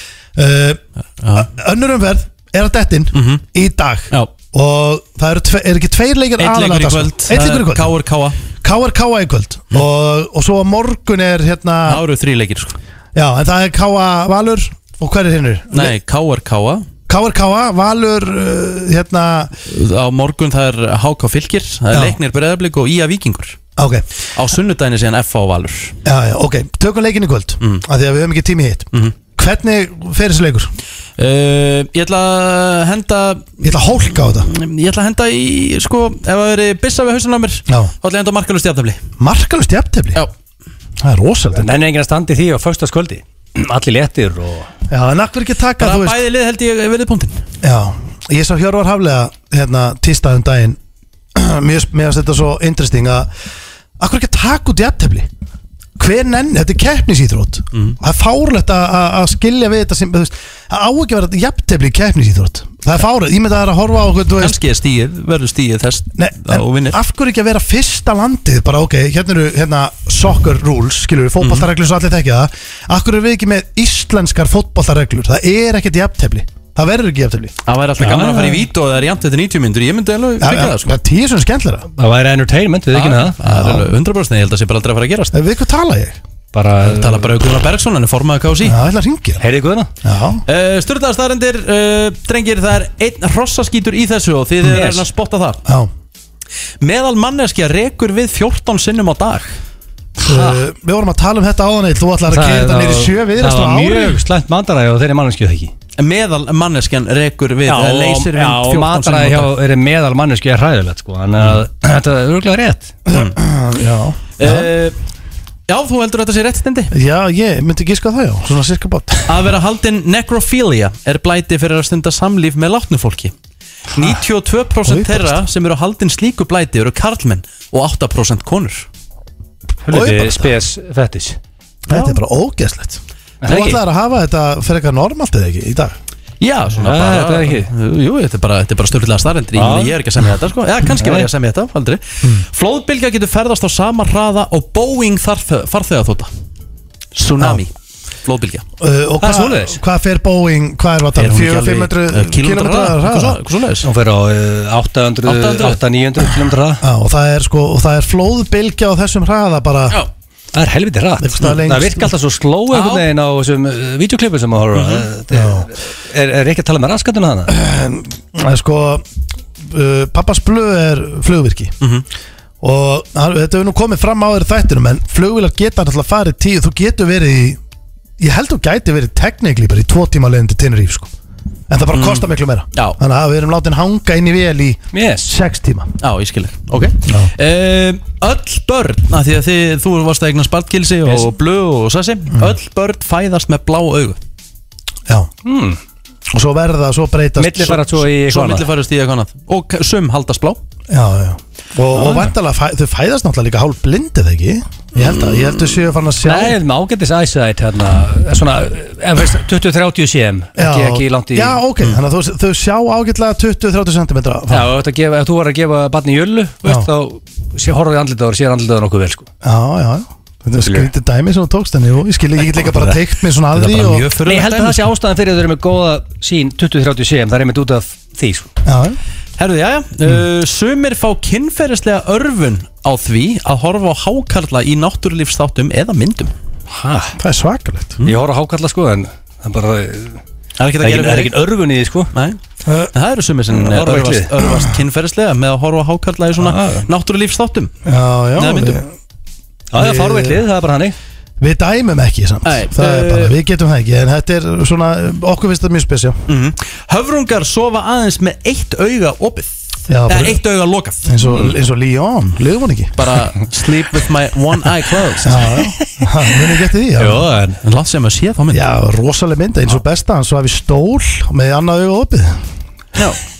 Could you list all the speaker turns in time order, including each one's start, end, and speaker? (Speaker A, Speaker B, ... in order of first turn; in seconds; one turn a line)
Speaker A: 0.3-0.8
Speaker B: 1.2-1.5
Speaker A: 1.3-7.9
Speaker B: 3.1-3.4
Speaker B: 6.4-8.4
Speaker A: 8.6-12.0
Speaker B: 11.9-12.8
Speaker A: 13.1-15.9
Speaker B: 15.7-16.9
Speaker A: 17.1-19.6
Speaker B: 19.6-23.6
Speaker A: 21.9-22.2
Speaker A: 23.8-24.1
Speaker B: 24.3-26.0
Speaker A: 26.0-30.7
Speaker B: 27.6-27.9
Speaker B: 31.2-39.0
Speaker A: 33.6-34.5
Speaker A: 39.2-40.2
Speaker A: 41.0-41.8
Speaker C: 41.5-44.7
Speaker A: 44.9-46.2
Speaker B: 45.8-47.4
Speaker A: 47.6-50.8
Speaker A: 51.3-53.3
Speaker A: 54.0-55.3
Speaker A: 56.0-64.6
Speaker B: 64.4-67.0
Speaker A: 66.2-77.5
Speaker B: 71.4-71.7
Speaker B: 77.7-80.9
Speaker C: 78.0-78.7
Speaker A: 80.4-81.9
Speaker C: 82.0-83.4
Speaker B: 82.9-85.4
Speaker A: 83.4-83.9
Speaker A: 85.3-86.2
Speaker C: 86.5-87.3
Speaker B: 86.8-88.8
Speaker A: 88.6-89.4
Speaker C: 89.4-89.9
Speaker A: 90.0-90.4
Speaker B: 90.5-95.6
Speaker C: 94.7-95.0
Speaker A: 95.6-95.9
Speaker B: 96.8-99.6
Speaker C: 100.2-100.6
Speaker A: 100.2-104.2
Speaker C: 102.3-105.7
Speaker B: 106.0-109.5
Speaker C: 107.7-112.9
Speaker A: 113.0-114.7
Speaker B: 114.4-115.0
Speaker B: 115.7-116.9
Speaker A: 116.9-119.3
Speaker B: 119.3-123.3
Speaker B: 124.0-128.9
Speaker A: 124.8-125.4
Speaker C: 129.8-131.4
Speaker A: 129.9-130.5
Speaker A: 131.9-136.0
Speaker C: 133.4-133.8
Speaker B: 136.4-146.3
Speaker C: 136.8-137.7
Speaker C: 139.6-140.0
Speaker C: 141.0-141.3
Speaker B: 147.1-147.7
Speaker B: 148.2-148.7
Speaker A: 148.8-153.4
Speaker C: 149.2-149.8
Speaker B: 151.2-153.9
Speaker C: 153.8-156.8
Speaker B: 155.2-155.8
Speaker A: 156.8-160.0
Speaker C: 160.5-167.5
Speaker A: 161.2-162.1
Speaker B: 162.7-163.1
Speaker B: 164.7-165.1
Speaker A: 165.3-165.7
Speaker A: 167.5-169.0
Speaker A: 169.6-171.7
Speaker B: 171.8-172.1
Speaker A: 172.6-177.6
Speaker A: 178.2-181.1
Speaker A: 181.7-185.9
Speaker B: 181.9-183.0
Speaker C: 184.9-185.3
Speaker B: 186.0-194.2
Speaker A: 187.1-187.3
Speaker C: 195.4-195.8
Speaker A: 196.3-197.8
Speaker C: 197.4-198.7
Speaker B: 198.3-200.6
Speaker A: 200.9-206.6
Speaker C: 201.9-202.3
Speaker B: 205.0-205.7
Speaker C: 206.2-211.6
Speaker A: 210.6-214.7
Speaker C: 214.5-219.3
Speaker A: 219.4-224.1
Speaker B: 223.5-224.8
Speaker C: 224.2-228.5
Speaker A: 228.6-229.0
Speaker B: 229.4-236.3
Speaker C: 236.7-237.1
Speaker A: 237.2-238.0
Speaker C: 238.0-240.2
Speaker B: 240.6-241.3
Speaker C: 240.8-242.1
Speaker B: 242.1-242.4
Speaker A: 242.6-242.9
Speaker B: 242.9-247.7
Speaker C: 243.6-244.3
Speaker C: 246.4-246.9
Speaker A: 247.8-248.9
Speaker B: 248.3-248.8
Speaker C: 249.7-250.9
Speaker A: 249.7-250.4
Speaker A: 251.4-256.2
Speaker B: 252.4-253.4
Speaker B: 256.3-259.5
Speaker A: 259.9-260.4
Speaker B: 260.1-261.5
Speaker A: 261.0-262.9
Speaker B: 263.0-265.5
Speaker A: 265.2-267.2
Speaker C: 266.9-267.6
Speaker B: 267.6-268.7
Speaker A: 268.5-272.4
Speaker B: 272.9-273.2